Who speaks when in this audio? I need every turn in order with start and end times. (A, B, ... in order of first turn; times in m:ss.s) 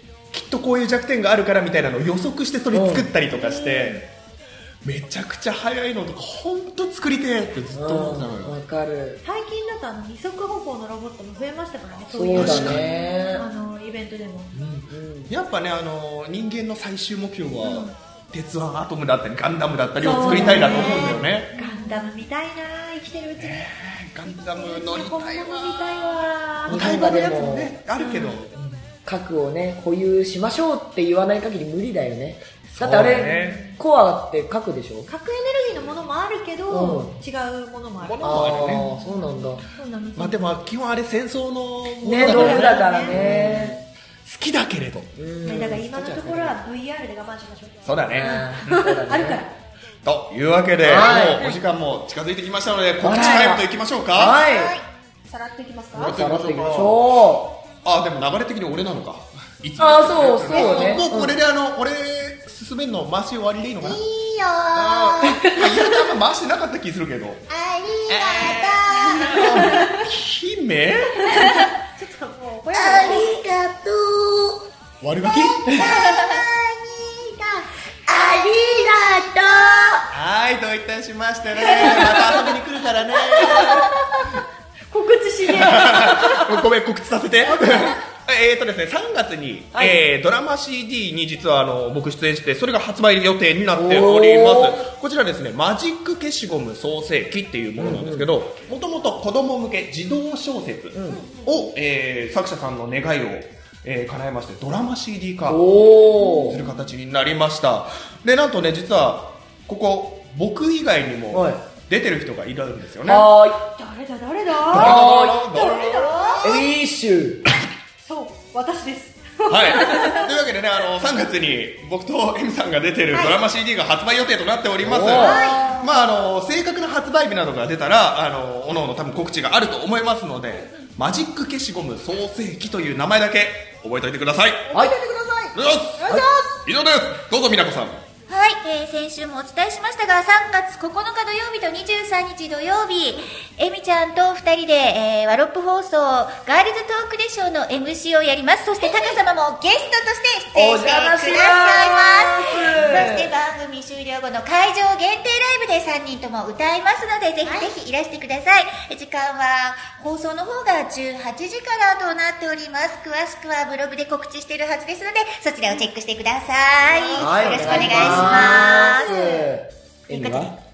0:00.3-0:04.1 A
0:02.7-0:03.1 B
0:03.4-0:04.0 C
0:04.8-0:08.5 A
0:07.7-0:09.2 B
0:09.2-0:14.5 C
0:12.1-0:13.4 B
0:12.3-0:12.9 A
0:14.5-0:21.5 A
0:14.9-0:15.3 B
0:17.6-0:17.9 C
0:20.0-0:23.7 C
0:20.2-0:21.3 B
0:21.6-0:22.2 D
0:23.4-0:28.9 A
0:24.3-0:27.5 C
0:26.7-0:27.8 B
0:28.0-0:28.4 C
0:29.0-0:35.1 B
0:32.7-0:33.6 A
0:33.1-0:33.8 C
0:35.1-0:40.4 C
0:36.7-0:37.2 B
0:38.0-0:38.8 A
0:38.2-0:39.6 B
0:40.2-0:45.2 A
0:42.0-0:43.8 B
0:42.1-0:43.2 C
0:45.2-0:46.0 B
0:45.4-0:49.5 C
0:45.7-0:46.5 A
0:47.8-0:48.8 A
0:48.1-0:49.4 B
0:50.0-0:54.4 A
0:50.8-0:51.6 B
0:53.0-0:54.8 B
0:54.4-0:54.8 D
0:55.3-0:56.2 C
0:56.0-0:57.0 A
0:56.0-0:57.6 B
0:57.8-1:04.0 A
0:59.8-1:01.4 B
1:00.5-1:00.9 D
1:03.8-1:05.4 D
1:04.7-1:07.4 A
1:05.2-1:05.9 B
1:07.5-1:09.9 D
1:08.1-1:11.6 A
1:09.3-1:09.9 C
1:11.3-1:13.4 C
1:11.4-1:11.7 D
1:12.7-1:14.7 D
1:15.0-1:15.9 A
1:15.3-1:20.1 D
1:15.7-1:16.0 B
1:20.1-1:23.9 A
1:21.7-1:22.5 D
1:23.4-1:24.3 C
1:24.9-1:26.6 C
1:25.5-1:53.3 A
1:27.4-1:28.0 C
1:29.7-1:30.0 B
1:33.8-1:34.8 B
1:37.8-1:38.3 B
1:41.0-1:41.2 B
1:41.1-1:41.7 C
1:45.5-1:46.6 B
1:46.2-1:46.6 C
1:51.3-1:51.6 B
1:53.1-1:53.7 B
1:53.7-1:56.6 C
1:54.7-1:55.5 B
1:54.7-1:56.6 A
1:56.4-1:57.5 B
1:58.0-2:00.3 C
1:59.5-2:14.7 A
2:03.1-2:03.4 C
2:04.8-2:05.7 B
2:05.1-2:05.9 C
2:14.7-2:16.6 C
2:15.6-2:18.0 A
2:18.3-2:49.1 D
2:28.9-2:29.1 C
2:30.5-2:33.3 B
2:46.8-2:49.5 C
2:47.2-2:50.6 B
2:47.9-2:48.5 A
2:50.1-2:50.4 C